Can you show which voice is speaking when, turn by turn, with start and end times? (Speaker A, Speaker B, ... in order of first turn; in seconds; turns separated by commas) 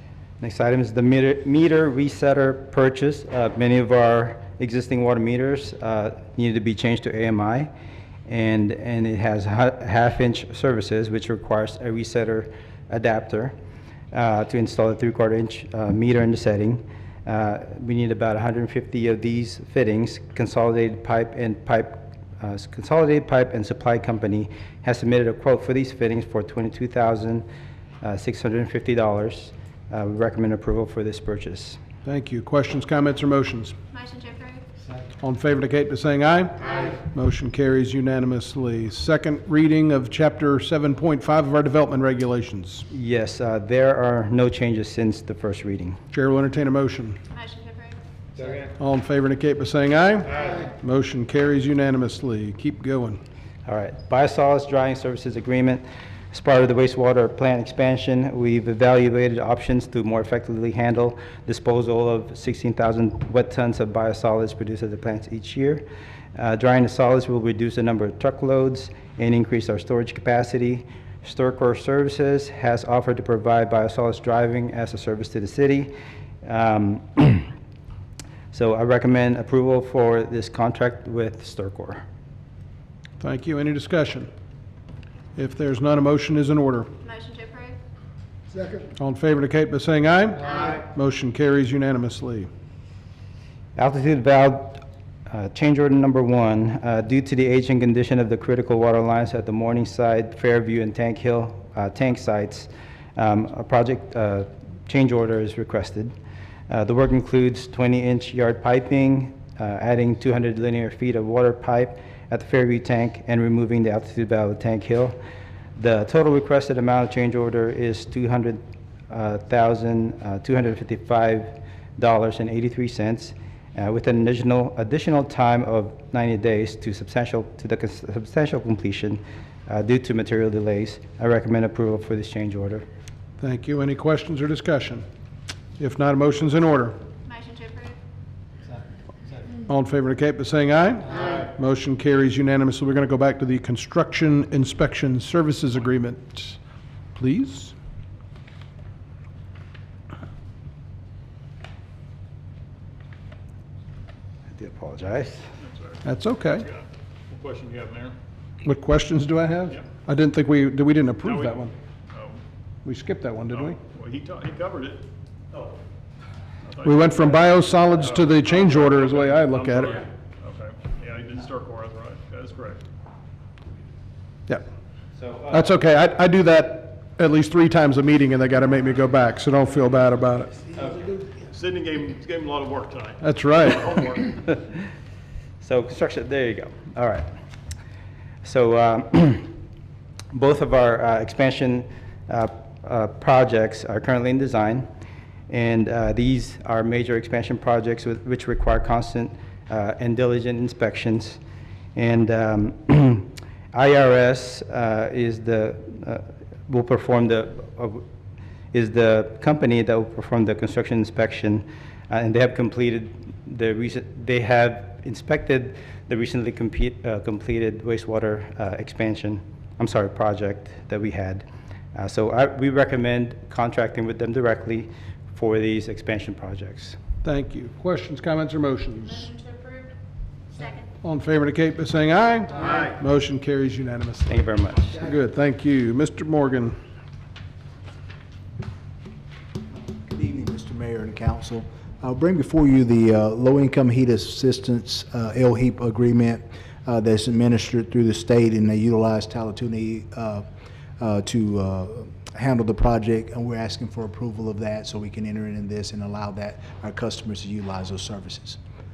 Speaker A: 0.4-7.7, Speaker A: 8.3-13.5, Speaker A: 14.1-27.4, Speaker A: 28.0-31.8, Speaker B: 32.0-33.8, Speaker C: 33.9-34.6, Speaker B: 35.2-42.9, Speaker A: 42.9-46.0, Speaker B: 46.1-47.2, Speaker C: 47.3-48.5, Speaker B: 48.8-53.2, Speaker A: 53.6-65.8, Speaker A: 66.3-75.9, Speaker A: 76.4-77.5, Speaker A: 78.5-82.0, Speaker B: 83.2-84.3, Speaker B: 85.3-86.9, Speaker C: 87.0-87.8, Speaker B: 89.0-92.5, Speaker A: 93.8-106.1, Speaker A: 106.7-115.2, Speaker A: 115.8-132.8, Speaker B: 133.4-135.0, Speaker B: 135.8-136.9, Speaker C: 137.2-138.0, Speaker B: 139.7-146.6, Speaker B: 147.2-147.7, Speaker A: 154.5-155.5, Speaker D: 155.6-158.2, Speaker B: 156.0-156.7, Speaker B: 158.6-161.7, Speaker D: 161.2-162.4, Speaker B: 162.8-163.8, Speaker D: 163.5-165.7, Speaker D: 166.6-172.8, Speaker B: 166.8-170.0, Speaker A: 175.2-175.7, Speaker B: 175.5-180.6, Speaker A: 180.8-181.1, Speaker D: 181.4-184.4, Speaker B: 183.2-183.9, Speaker A: 184.5-184.8, Speaker A: 185.6-187.3, Speaker A: 188.4-189.5, Speaker A: 190.3-194.8, Speaker A: 195.5-201.4, Speaker A: 201.9-208.0, Speaker A: 208.7-227.0, Speaker B: 227.2-229.3, Speaker C: 229.2-229.9, Speaker C: 230.5-230.9, Speaker B: 231.0-236.8, Speaker A: 234.3-235.0, Speaker E: 240.0-250.4, Speaker E: 251.0-258.6